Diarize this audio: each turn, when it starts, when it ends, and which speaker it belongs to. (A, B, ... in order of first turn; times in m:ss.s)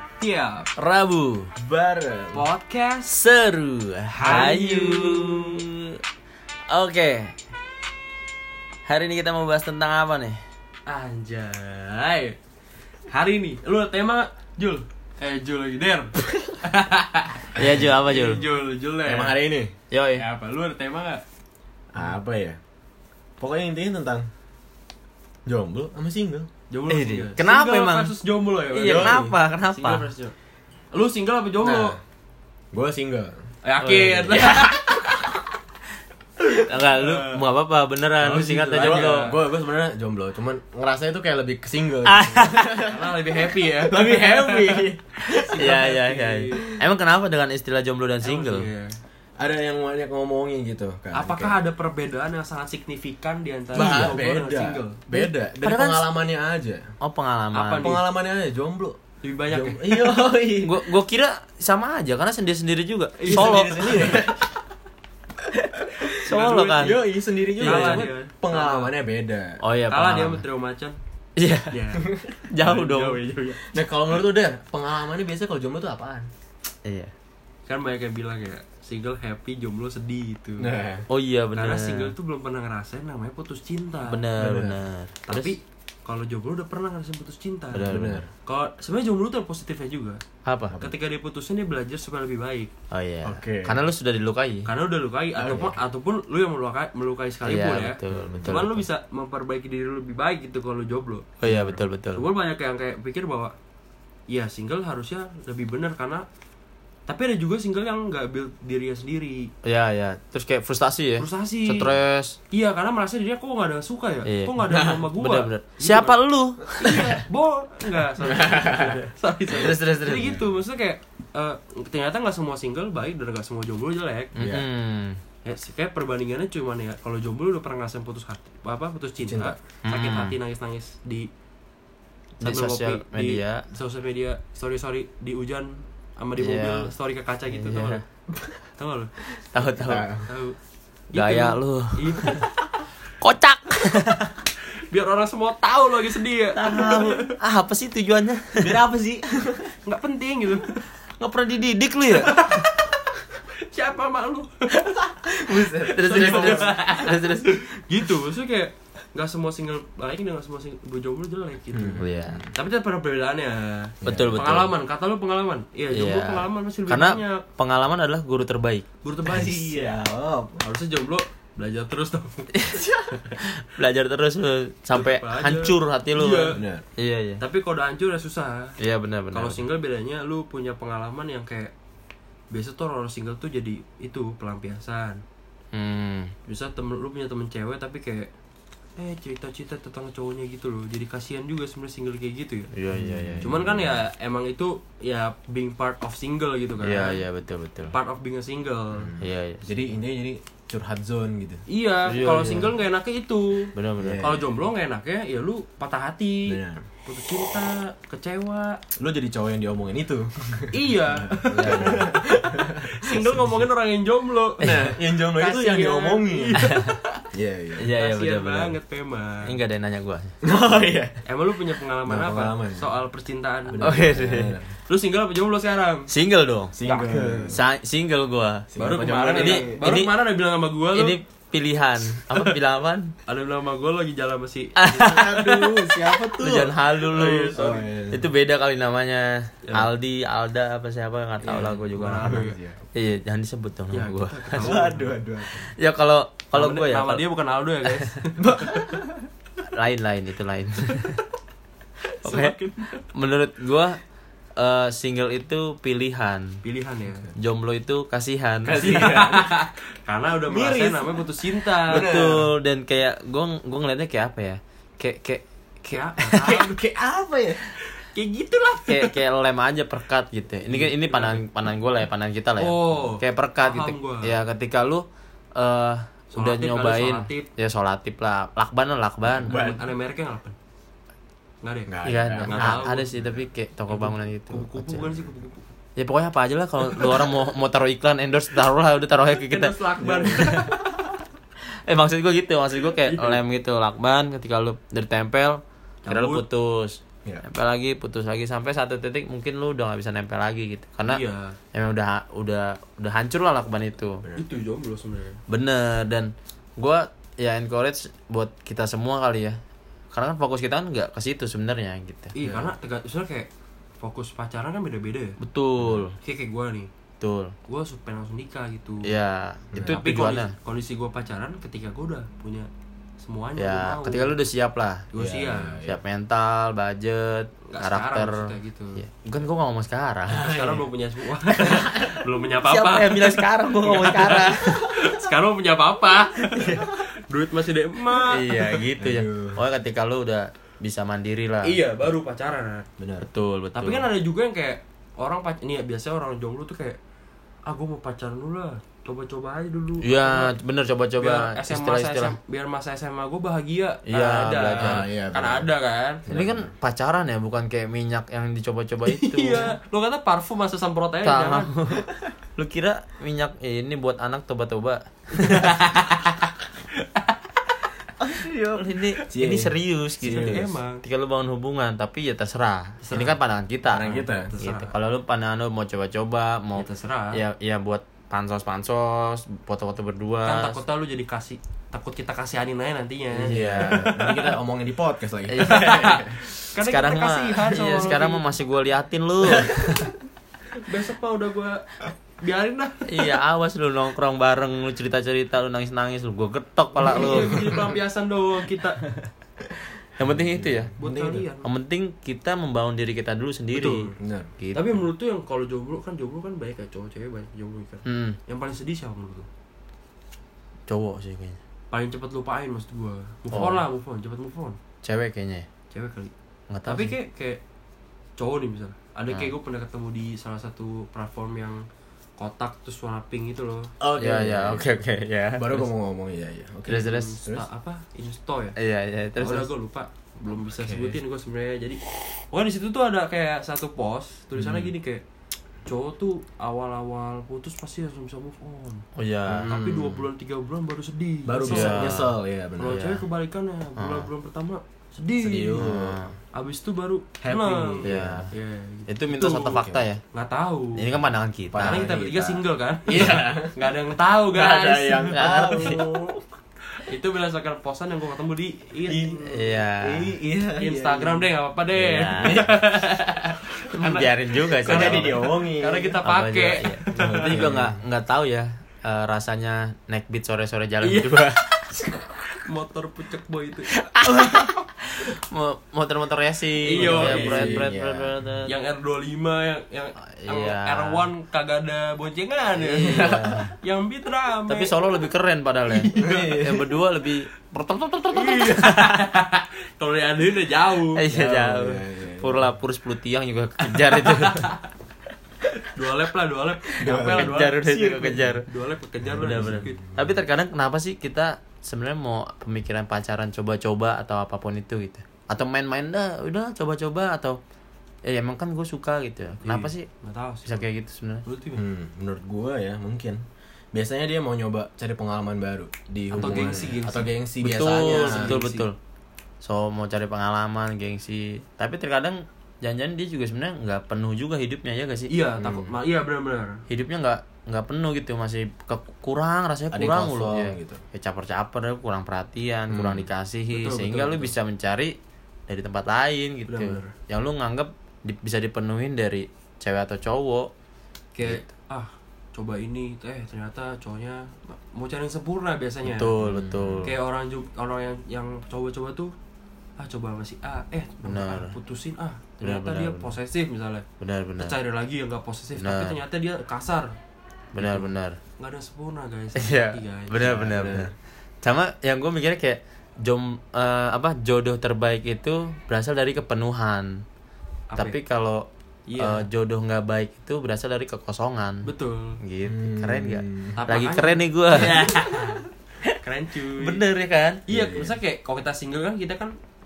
0:00.2-0:00.7 A
0:00.8-0:01.5 B
0:01.6-0:02.5 C
0:02.3-0:03.2 A
0:03.1-0:06.0 B
0:04.1-0:05.6 A
0:06.7-0:07.4 B
0:08.9-0:10.4 B
0:10.9-0:12.4 A
0:13.1-0:19.4 A
0:17.5-0:18.5 B
0:17.6-0:17.9 C
0:19.0-0:19.7 C
0:19.9-0:20.3 B
0:20.2-0:21.2 A
0:21.9-0:22.6 C
0:23.4-0:24.3 C
0:25.5-0:26.5 C
0:26.7-0:30.3 A
0:26.9-0:28.2 B
0:28.7-0:30.1 B
0:28.8-0:29.4 C
0:30.9-0:32.0 A
0:31.6-0:32.0 C
0:32.7-0:33.5 C
0:33.6-0:34.8 A
0:33.8-0:35.0 B
0:36.5-0:39.4 B
0:36.9-0:37.4 A
0:38.2-0:39.4 A
0:38.5-0:45.6 C
0:42.0-0:42.9 B
0:42.8-0:46.8 A
0:45.5-0:48.7 B
0:48.2-0:49.0 A
0:49.4-0:51.6 C
0:51.1-0:55.0 A
0:53.7-0:54.2 B
0:53.7-0:56.9 C
0:55.1-0:56.1 B
0:57.0-0:58.0 B
0:57.5-0:58.0 A
0:57.8-0:59.0 C
0:59.2-1:00.2 A
0:59.5-1:00.9 C
1:00.6-1:04.2 B
1:03.2-1:04.2 A
1:03.2-1:04.5 C
1:05.5-1:06.2 C
1:06.2-1:07.0 B
1:06.2-1:08.9 A
1:06.8-1:09.6 C
1:07.6-1:08.1 B
1:09.6-1:10.4 B
1:09.9-1:11.0 A
1:11.4-1:13.3 B
1:11.7-1:13.6 A
1:12.0-1:12.4 C
1:13.6-1:16.3 C
1:16.8-1:17.1 B
1:17.7-1:20.7 A
1:20.6-1:21.1 C
1:21.1-1:22.1 B
1:21.6-1:24.3 A
1:24.1-1:25.5 B
1:24.4-1:24.8 C
1:25.3-1:30.2 A
1:27.7-1:28.2 B
1:27.9-1:28.3 C
1:30.4-1:30.8 B
1:30.7-1:31.0 C
1:30.8-1:32.7 A
1:32.9-1:34.7 B
1:33.2-1:33.8 C
1:34.6-1:41.3 A
1:35.4-1:35.8 C
1:37.4-1:38.9 B
1:38.1-1:38.7 C
1:41.4-1:42.2 B
1:41.4-1:41.8 C
1:42.1-1:43.6 A
1:44.3-1:46.3 A
1:47.1-1:49.5 A
1:49.6-1:52.4 B
1:51.2-1:52.0 A
1:52.5-1:56.2 A
1:54.2-1:57.2 B
1:54.6-1:55.1 C
1:56.7-2:04.4 A
1:58.2-1:59.1 C
1:59.5-2:00.4 B
2:04.4-2:04.7 C
2:04.4-2:05.2 B
2:05.4-2:11.3 A
2:09.2-2:09.6 C
2:09.8-2:10.4 B
2:12.4-2:13.6 B
2:12.4-2:18.0 A
2:16.4-2:16.9 B
2:17.5-2:18.0 B
2:18.8-2:19.1 A
2:19.5-2:20.1 B
2:19.8-2:20.3 C
2:20.3-2:20.6 A
2:21.1-2:22.4 B
2:21.1-2:22.7 A
2:23.2-2:24.4 B
2:24.9-2:27.3 A
2:26.6-2:28.8 B
2:28.6-2:29.8 C
2:29.8-2:30.9 A
2:31.2-2:32.6 B
2:32.2-2:34.9 A
2:34.8-2:37.0 C
2:35.8-2:37.6 B
2:35.8-2:47.4 A
2:41.7-2:42.5 C
2:42.0-2:42.4 B
2:44.0-2:44.4 C
2:44.0-2:44.7 B
2:45.9-2:48.9 B
2:49.0-2:50.1 A
2:49.2-2:50.6 C
2:50.6-2:52.5 A
2:52.5-2:57.4 B
2:54.9-2:56.6 A
2:56.5-2:56.8 C
2:57.4-2:58.8 A
2:58.8-2:59.6 B
2:59.3-3:01.7 A
3:02.5-3:05.2 A
3:05.7-3:06.3 B
3:06.5-3:08.3 A
3:09.0-3:12.7 A
3:12.7-3:13.6 B
3:13.0-3:14.0 C
3:13.4-3:17.2 A
3:16.8-3:18.0 B
3:17.9-3:19.2 A
3:19.0-3:21.6 C
3:19.2-3:19.8 B
3:21.7-3:28.8 A
3:22.0-3:22.8 B
3:23.8-3:24.3 B
3:24.0-3:24.4 C
3:26.5-3:26.9 C
3:29.0-3:33.4 C
3:30.7-3:37.2 A
3:31.6-3:32.1 B
3:34.6-3:36.6 C
3:37.3-3:37.9 C
3:37.8-3:38.8 B
3:37.9-3:39.6 A
3:39.4-3:40.3 B
3:40.4-3:41.2 C
3:41.2-3:44.0 A
3:42.1-3:42.9 C
3:43.7-3:44.7 C
3:43.8-3:44.6 B
3:44.9-3:46.1 A
3:46.1-3:46.8 B
3:46.8-3:47.6 C
3:46.8-3:47.6 A
3:47.5-3:48.7 B
3:48.7-3:49.8 C
3:48.8-3:51.2 A
3:49.4-3:50.1 B
3:50.9-3:53.1 B
3:53.3-3:55.5 A
3:54.8-3:55.6 B
3:54.9-3:58.3 C
3:56.4-4:04.8 B
3:57.3-3:57.8 A
3:59.6-3:59.9 A
4:01.4-4:02.6 A
4:02.0-4:02.8 C
4:03.9-4:05.1 A
4:04.6-4:05.7 C
4:05.5-4:07.2 B
4:06.5-4:08.9 A
4:08.4-4:09.3 C
4:09.7-4:11.2 B
4:12.2-4:13.0 A
4:12.2-4:14.0 B
4:14.6-4:16.6 B
4:16.6-4:17.3 A
4:17.4-4:19.0 B
4:18.6-4:19.6 C
4:18.8-4:22.1 A
4:20.5-4:22.5 C
4:21.9-4:26.6 B
4:25.9-4:26.8 A
4:26.4-4:27.7 C
4:27.8-4:29.2 A
4:28.9-4:39.7 B
4:30.7-4:31.4 A
4:32.6-4:34.4 A
4:36.3-4:37.5 A
4:39.4-4:39.9 C
4:39.4-4:40.6 A
4:41.6-4:43.1 A
4:41.9-4:43.4 C
4:42.0-4:45.2 B
4:43.9-4:45.7 A
4:46.0-4:51.0 B
4:49.2-4:50.7 A
4:50.0-4:50.7 C
4:51.9-5:01.2 B
4:53.0-4:53.4 A
4:56.0-4:56.5 A
5:01.1-5:01.6 A
5:01.7-5:04.3 B
5:04.4-5:05.4 A
5:05.5-5:09.6 B
5:10.1-5:12.4 B
5:12.4-5:15.4 A
5:12.4-5:12.7 C
5:15.4-5:16.2 B
5:16.2-5:16.9 A
5:17.2-5:17.6 B
5:17.7-5:19.2 A
5:19.0-5:20.6 B
5:19.7-5:20.0 C
5:19.8-5:24.4 A
5:23.6-5:25.1 B
5:25.1-5:25.8 A
5:25.2-5:26.0 C
5:25.8-5:30.6 B
5:27.6-5:29.0 A
5:30.3-5:30.8 C
5:30.4-5:38.9 A
5:31.7-5:32.2 C
5:32.6-5:35.0 B
5:38.3-5:41.8 B
5:39.0-5:39.6 C
5:41.6-5:42.9 A
5:43.0-5:43.3 C
5:43.2-5:44.1 B
5:43.8-5:47.0 A
5:47.7-5:50.5 A
5:50.0-5:52.4 B
5:51.2-5:56.2 A
5:54.1-5:55.0 B
5:54.8-5:55.7 C
5:56.3-5:56.7 C
5:56.3-5:59.8 B
5:59.1-6:01.7 A
6:01.2-6:06.0 B
6:05.4-6:06.3 A
6:07.0-6:07.6 A
6:08.2-6:10.6 C
6:08.7-6:20.8 B
6:10.2-6:11.0 A
6:13.0-6:13.4 A
6:13.8-6:14.5 C
6:14.5-6:14.9 A
6:16.8-6:17.4 A
6:20.4-6:24.5 A
6:23.3-6:24.1 B
6:23.5-6:26.4 C
6:25.5-6:30.1 B
6:25.5-6:28.5 A
6:30.8-6:33.1 A
6:33.1-6:37.9 B
6:37.0-6:39.1 A
6:40.2-6:41.0 B
6:40.4-6:41.4 C
6:41.0-6:41.7 A
6:41.6-6:45.0 B
6:43.7-6:44.2 A
6:44.2-6:44.5 C
6:44.7-6:49.5 A
6:48.0-6:48.4 B
6:50.9-6:51.6 B
6:51.9-6:54.8 A
6:53.5-6:53.8 B
6:55.0-6:55.7 B
6:55.9-6:56.3 A
6:56.7-6:57.1 B
6:56.8-6:57.6 A
6:58.4-7:01.8 A
7:02.4-7:03.9 A
7:04.0-7:05.0 C
7:04.2-7:05.9 B
7:05.6-7:07.7 C
7:06.9-7:07.4 B
7:06.9-7:08.8 A
7:08.8-7:09.7 B
7:09.4-7:15.2 A
7:10.7-7:11.2 C
7:15.8-7:19.0 A
7:19.2-7:19.7 B
7:19.5-7:20.2 C
7:19.6-7:22.1 A
7:21.5-7:23.0 C
7:21.7-7:23.2 B
7:22.8-7:25.9 A
7:24.0-7:24.3 B
7:25.4-7:26.2 C
7:25.7-7:26.4 B
7:26.5-7:31.1 A
7:27.4-7:28.5 C
7:28.0-7:28.5 B
7:29.1-7:30.2 B
7:29.4-7:30.0 C
7:31.0-7:32.1 B
7:31.7-7:34.0 C
7:31.8-7:36.0 A
7:34.5-7:36.4 C
7:35.3-7:36.2 B
7:37.0-7:39.8 A
7:39.1-7:41.5 C
7:39.4-7:40.3 B
7:40.8-7:47.7 A
7:42.0-7:42.6 B
7:42.3-7:42.9 C
7:43.9-7:45.5 B
7:44.8-7:46.2 C
7:46.2-7:52.0 B
7:47.1-7:48.0 C
7:51.0-7:53.9 A
7:53.9-7:58.7 B
7:56.8-7:57.9 A
7:56.9-7:58.4 C
7:58.6-8:05.0 A
8:00.4-8:01.3 B
8:02.8-8:03.7 B
8:03.0-8:03.6 C
8:04.7-8:09.2 B
8:05.9-8:07.0 A
8:06.2-8:06.8 C
8:08.3-8:11.2 A
8:11.1-8:14.8 B
8:11.3-8:12.6 C
8:14.2-8:14.8 A
8:15.9-8:19.9 A
8:17.0-8:17.6 C
8:17.0-8:18.7 B
8:19.3-8:20.3 C
8:19.4-8:27.6 B
8:28.2-8:30.1 B
8:29.6-8:30.9 A
8:30.7-8:31.4 B
8:31.4-8:31.8 A
8:31.8-8:38.6 C
8:36.3-8:37.1 B
8:36.3-8:38.9 A
8:37.6-8:39.0 B
8:39.6-8:45.3 B
8:45.3-8:46.8 A
8:45.6-8:45.9 C
8:46.9-8:55.2 B
8:49.9-8:51.0 C
8:52.9-8:53.3 C
8:53.7-8:54.5 A
8:55.7-9:00.7 B
8:56.7-8:57.1 A
9:01.4-9:06.4 A
9:01.4-9:01.7 B
9:06.0-9:07.2 B
9:06.4-9:07.1 C
9:07.0-9:09.4 A
9:10.0-9:14.0 A
9:11.2-9:11.8 B
9:12.6-9:13.3 B
9:14.2-9:14.8 B
9:14.6-9:17.1 A
9:15.8-9:16.2 B
9:17.7-9:18.4 B
9:18.6-9:20.6 A
9:19.6-9:27.2 B
9:20.4-9:21.1 C
9:27.9-9:28.2 A
9:28.0-9:31.9 B
9:29.1-9:29.5 A
9:31.8-9:32.4 A
9:32.4-9:36.2 B
9:32.6-9:33.8 C
9:33.8-9:35.6 A
9:36.2-9:37.0 A
9:36.8-9:37.6 B
9:37.7-9:39.6 A
9:37.7-9:38.2 C